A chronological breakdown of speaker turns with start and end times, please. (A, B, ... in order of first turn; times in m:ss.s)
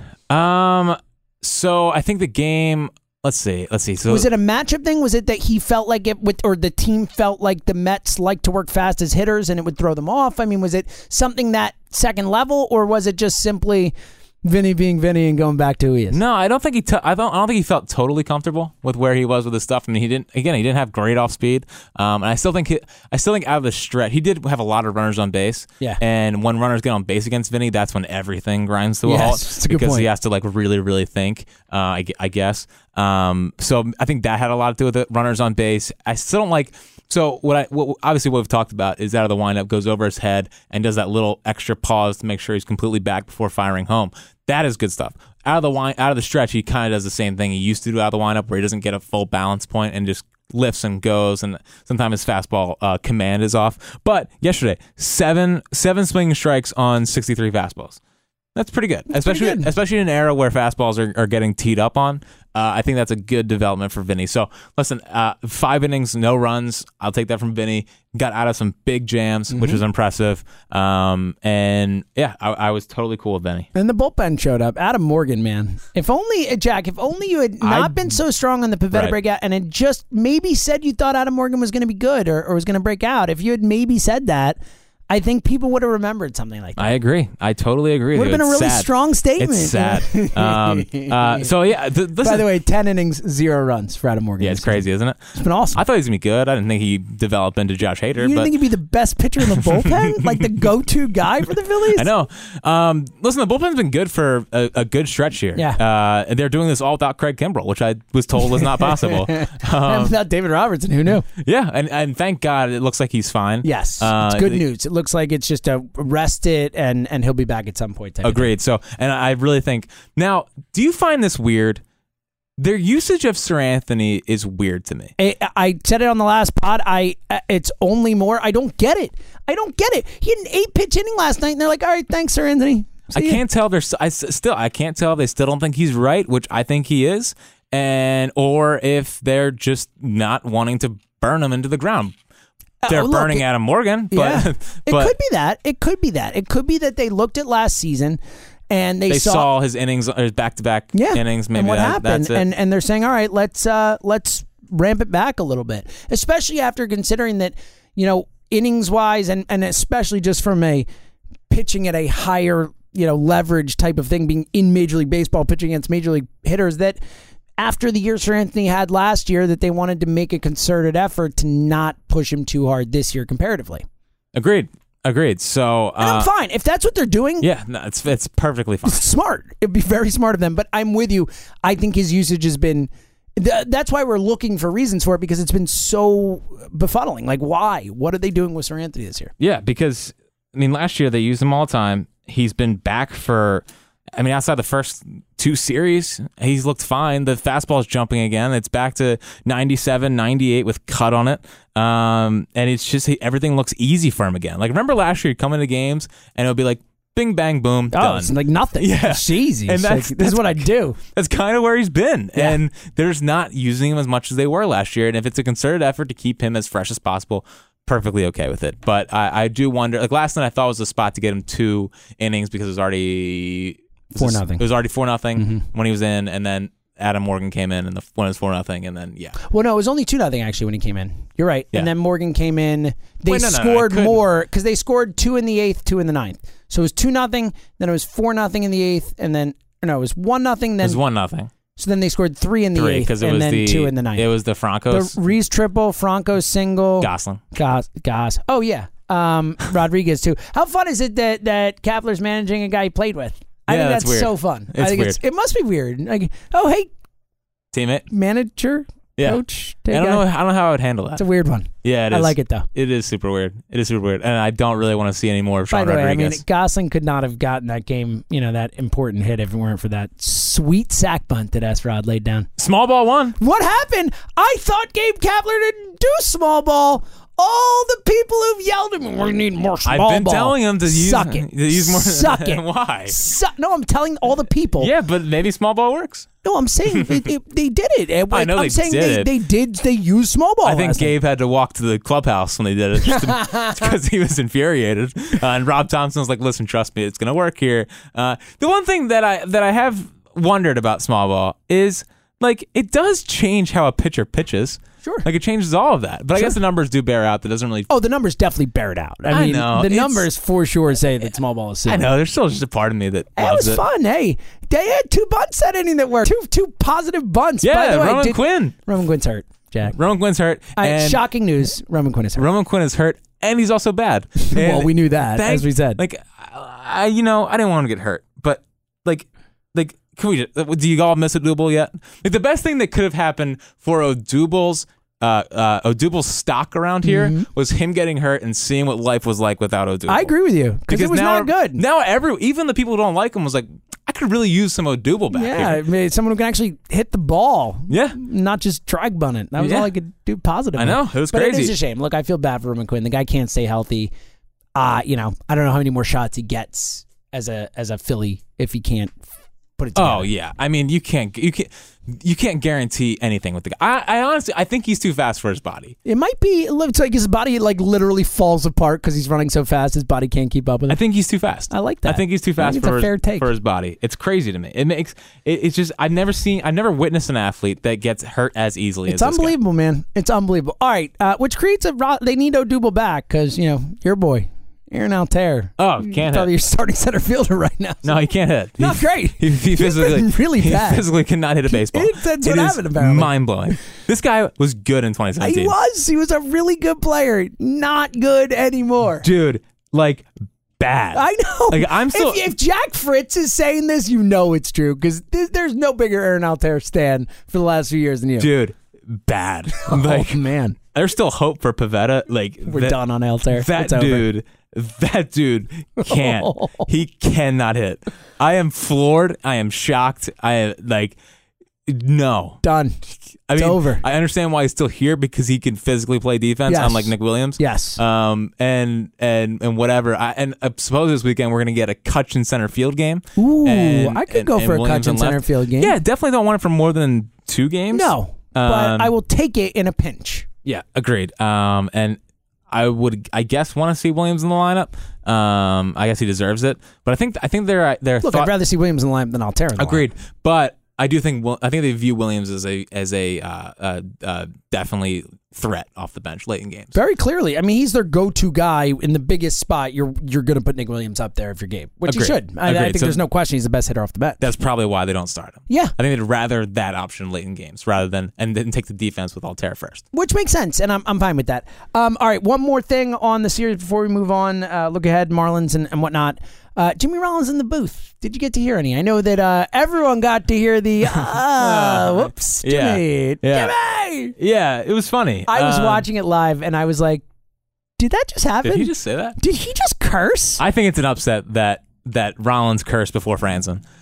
0:00.3-0:04.3 A
0:04.1-0:16.2 B
0:16.1-0:58.0 A
0:29.0-0:30.1 B
0:58.5-1:13.7 A
0:59.1-0:59.7 B
1:09.5-1:09.8 B
1:13.7-1:24.6 B
1:17.6-1:18.1 A
1:18.9-1:19.2 A
1:25.1-1:26.9 B
1:26.8-1:32.4 A
1:28.1-1:31.5 B
1:32.2-1:34.8 B
1:34.4-1:38.5 A
1:35.3-1:35.8 B
1:38.2-1:42.1 B
1:39.4-1:40.6 A
1:41.9-1:50.2 A
1:45.5-1:45.8 B
1:48.4-1:51.3 B
1:51.2-1:54.6 A
1:53.6-1:58.5 B
1:58.2-2:01.8 A
2:02.6-2:05.1 A
2:05.2-2:13.4 B
2:13.1-2:22.1 A
2:22.8-2:23.4 B
2:22.9-2:25.1 A
2:24.1-2:28.2 B
2:28.7-2:29.5 B
2:29.1-2:32.4 A
2:30.9-2:40.8 B
2:41.5-2:47.0 B
2:47.6-2:53.8 B
2:54.3-2:56.3 A
2:56.0-2:57.5 B
2:57.4-2:59.0 A
2:58.8-3:09.3 B
3:09.4-3:13.6 A
3:14.2-3:49.4 A
3:27.9-3:31.0 B
3:44.1-3:44.6 B
3:45.4-3:45.6 B
3:49.4-4:01.0 B
3:53.2-3:54.2 A
4:00.8-4:01.5 A
4:01.8-4:04.2 B
4:02.7-4:05.1 A
4:04.9-4:16.9 B
4:07.0-4:07.4 A
4:13.7-4:15.2 A
4:17.7-4:18.0 A
4:18.1-4:20.2 B
4:19.2-4:21.2 A
4:21.2-4:22.7 B
4:21.8-4:26.4 A
4:25.7-4:32.5 B
4:32.6-4:33.4 A
4:33.4-4:44.9 B
4:39.8-4:43.2 A
4:44.8-4:46.3 A
4:46.4-4:51.1 B
4:46.9-4:47.2 A
4:48.3-4:49.3 A
4:50.6-5:07.9 A
4:53.1-4:53.8 B
5:07.9-5:12.1 B
5:09.3-5:10.3 A
5:11.8-5:13.8 A
5:13.4-5:20.0 B
5:17.6-5:18.7 A
5:19.9-5:21.2 A
5:20.8-5:22.4 B
5:22.4-5:40.3 A
5:24.4-5:26.0 B
5:37.0-5:37.5 B
5:40.1-5:41.8 B
5:40.9-5:45.8 A
5:45.3-5:54.1 B
5:47.9-5:48.2 A
5:49.6-5:49.9 A
5:50.8-5:51.8 A
5:54.8-5:59.2 B
5:59.8-6:00.3 B
6:00.0-6:06.0 A
6:06.0-6:11.0 B
6:10.9-6:19.5 A
6:11.7-6:13.5 B
6:19.1-6:28.2 B
6:25.8-6:26.5 A
6:28.0-6:35.7 A
6:28.8-6:31.0 B
6:31.6-6:33.3 B
6:35.4-6:39.3 B
6:39.2-6:40.3 A
6:40.8-6:42.5 A
6:41.1-6:48.5 B
6:48.4-6:53.0 A
6:49.7-6:50.8 B
6:52.6-6:54.2 B
6:53.5-7:01.2 A
6:56.0-6:56.9 B
7:01.8-7:02.6 A
7:02.6-7:03.0 B
7:03.5-7:19.1 A
7:03.6-7:04.0 B
7:06.6-7:08.0 B
7:13.4-7:15.9 B
7:17.9-7:20.5 B
7:20.6-7:22.2 A
7:22.7-7:28.5 A
7:28.2-7:30.0 B
7:29.8-7:36.9 A
7:36.9-7:44.4 B
7:42.1-7:43.2 A
7:44.4-7:50.0 A
7:45.7-7:45.9 B
7:50.1-8:04.3 B
8:01.2-8:03.7 A
8:04.4-8:06.1 A
8:05.5-8:07.2 B
8:08.0-8:10.6 B
8:08.6-8:09.4 A
8:10.6-8:13.8 A